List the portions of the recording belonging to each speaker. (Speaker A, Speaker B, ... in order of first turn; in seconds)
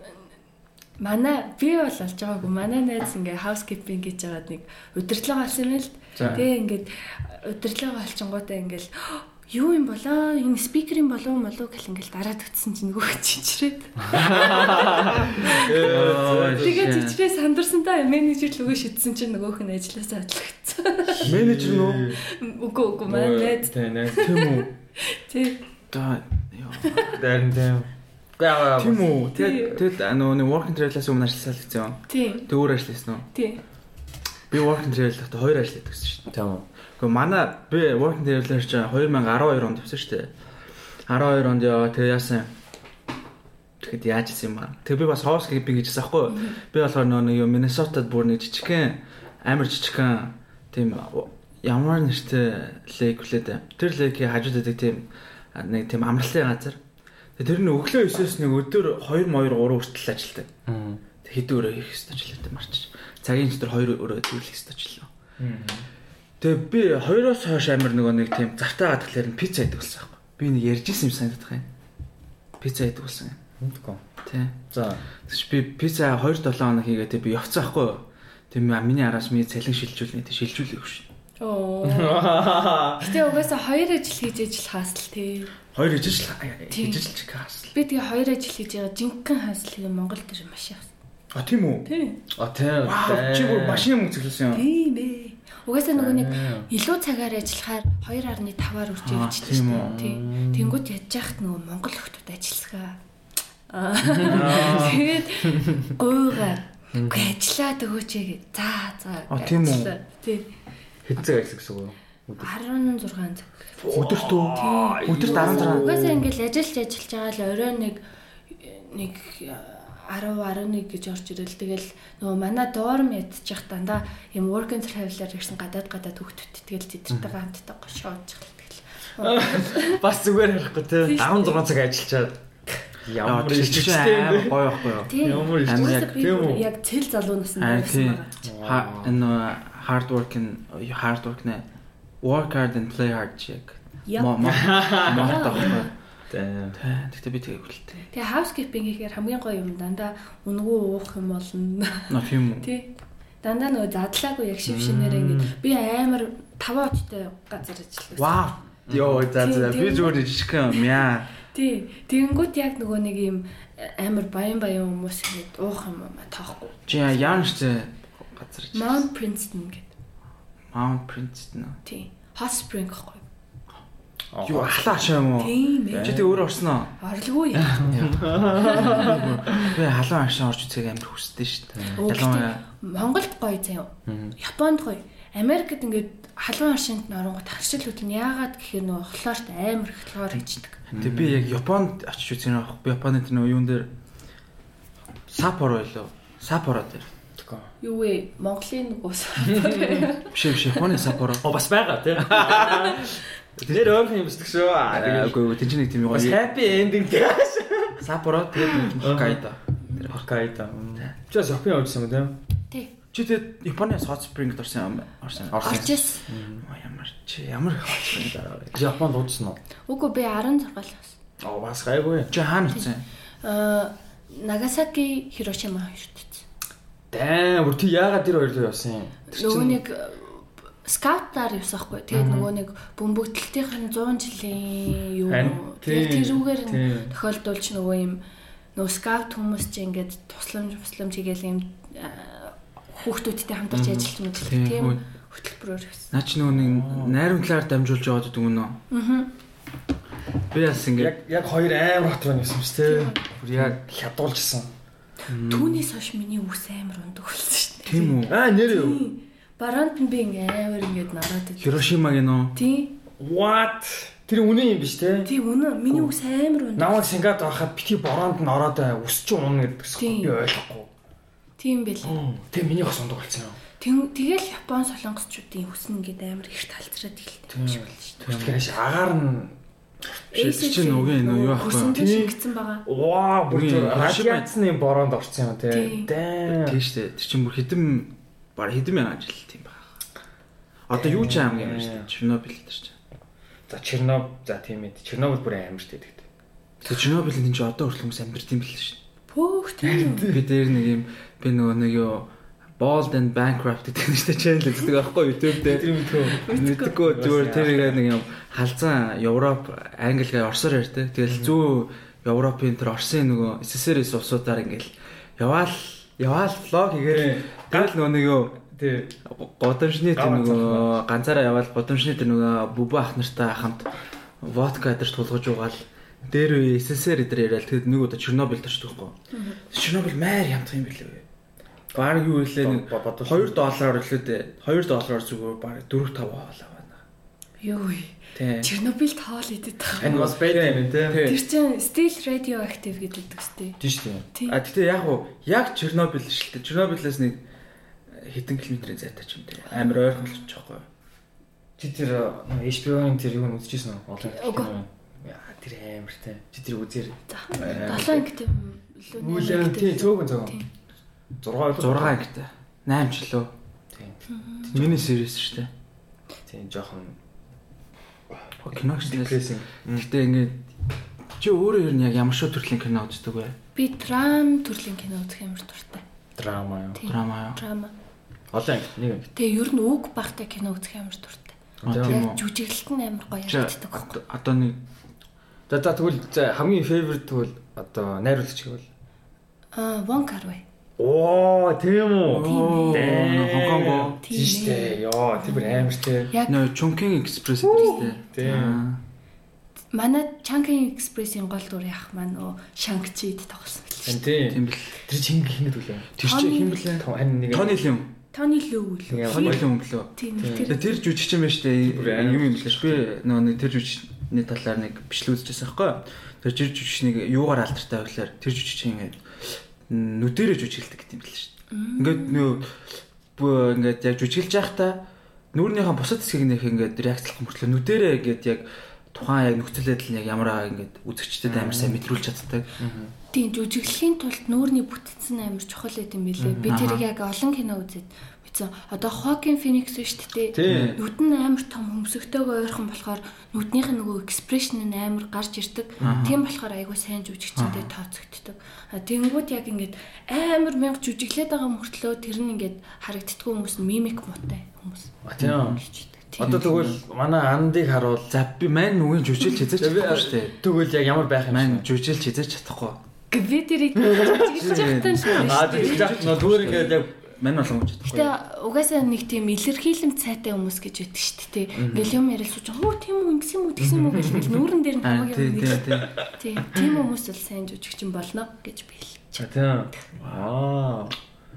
Speaker A: 1.0-15.7, 16.6-21.3, 22.1-25.6, 26.8-27.1, 29.3-29.8, 32.1-32.5, 33.3-33.6, 81.4-85.5, 86.7-87.1, 87.7-90.9, 91.9-92.2, 94.5-103.0, 103.7-110.5, 112.4-113.8, 114.5-130.0, 131.0-131.6, 135.0-138.4, 144.1-145.8, 148.1-158.4, 159.3-160.9, 161.5-167.6, 168.7-169.9, 171.8-173.2, 175.4-176.2, 177.0-177.9, 178.4-179.7, 181.8-190.8, 197.8-201.1, 202.5-203.2, 215.6-216.2, 217.9-218.3, 219.9-221.2, 223.4-226.4, 229.3-238.2, 238.8-246.1, 248.9-249.3, 252.8-253.2, 255.4-261.9, 262.5-262.9, 265.2-267.0, 270.0-270.4, 271.6-272.2, 273.8-278.0, 280.3-282.9, 285.7-286.1, 299.3-300.3, 306.2-307.0, 329.3-329.6, 337.6-340.1, 341.1-343.8, 349.7-350.3, 354.3-354.7, 357.3-360.7, 364.3-364.7, 373.8-376.0, 377.0-377.9, 379.4-384.2, 389.7-390.6, 392.4-393.1, 394.2-396.6, 397.7-398.2, 399.9-404.2, 406.2-406.9, 408.3-409.6, 410.1-411.1, 421.7-422.5, 433.3-455.1, 455.8-456.6, 463.3-466.2, 468.1-479.4
Speaker B: 6.2-6.4, 14.0-16.9, 21.1-22.2, 23.0-24.4, 27.1-29.1, 36.3-36.6, 60.7-61.0, 65.4-65.9, 73.6-74.0, 74.7-75.0, 81.8-83.3, 92.4-93.9, 96.0-96.7, 99.7-100.8, 104.2-105.8, 106.9-107.3, 111.0-112.5, 113.9-116.2, 129.2-132.4, 133.0-136.7, 138.4-139.2, 144.4-146.8, 154.7-155.5, 158.9-159.2, 174.3-175.2, 175.9-176.4, 177.6-179.3, 184.1-184.3, 190.9-191.5, 197.4-197.7, 199.4-200.1, 201.4-205.4, 206.1-208.0, 208.5-209.4, 210.1-212.4, 215.5-216.6, 218.7-219.6, 221.4-222.3, 227.1-229.8, 232.1-232.5, 235.3-237.1, 243.7-244.1, 246.5-247.2, 250.9-254.7, 258.3-259.1, 263.2-265.3, 266.8-270.9, 272.0-273.6, 277.5-279.6, 281.9-286.8, 290.9-292.1, 293.7-296.2, 299.8-300.5, 305.6-306.4, 307.0-308.0, 311.3-311.5, 317.1-318.0, 318.6-319.1, 320.1-321.0, 332.6-333.8, 340.0-341.3, 343.8-344.3, 351.8-358.3, 359.2-360.6, 361.4-362.2, 363.9-365.1, 366.5-367.2, 368.7-370.1, 376.4-377.1, 378.5-379.3, 381.8-382.2, 385.7-388.9, 391.0-396.3, 397.6-398.8, 404.0-406.2, 406.9-407.9, 409.1-409.7, 410.4-410.7, 411.8-413.0, 431.4-432.1, 432.8-433.1, 436.4-436.7, 440.5-441.0, 446.0-446.3, 455.2-455.8, 456.4-458.3, 459.8-461.9, 464.0-464.5, 465.3-467.1, 471.8-472.2, 473.8-474.6, 479.4-481.1
Speaker C: 15.2-17.2, 21.2-22.1, 24.2-24.7, 25.9-27.2, 28.8-33.3, 34.5-36.3, 37.0-40.3, 41.1-42.5, 43.8-56.8, 57.4-60.5, 61.2-65.1, 66.4-71.7, 72.6-73.4, 74.2-74.6, 75.2-81.1, 85.7-87.7, 91.3-91.9, 92.8-94.7, 99.0-99.9, 104.2-105.1, 109.3-109.9, 113.8-116.0, 133.2-136.2, 137.6-141.7, 142.2-145.9, 146.8-148.1, 152.1-152.7, 158.2-161.3, 166.9-169.1, 170.7-171.8, 174.4-176.9, 177.9-182.6, 190.9-193.9, 195.3-197.1, 200.3-201.4, 202.3-202.8, 204.9-206.5, 208.0-210.2, 213.1-218.8, 222.3-223.0, 244.4-245.0, 246.1-248.8, 250.5-251.1, 255.3-255.9, 257.9-258.4, 261.6-262.6, 278.2-278.6, 280.3-282.0, 283.5-284.5, 286.5-289.8, 290.9-292.9, 296.8-299.0, 300.3-318.6, 319.2-329.1, 329.7-331.2, 331.9-337.0, 338.4-338.7, 340.0-341.4, 344.5-347.4, 348.1-350.9, 361.8-363.5, 364.7-365.7, 368.6-370.6, 371.4-373.6, 377.0-377.6, 381.8-382.4, 383.5-384.8, 392.3-394.2, 396.4-399.0, 404.5-405.0, 406.2-408.1, 409.3-425.0, 425.5-432.8, 436.7-437.0, 440.6-441.0, 446.0-446.4, 447.6-447.9, 455.4-455.8, 456.4-457.0, 458.3-460.5, 461.5-463.0, 464.5-468.3, 475.0-476.1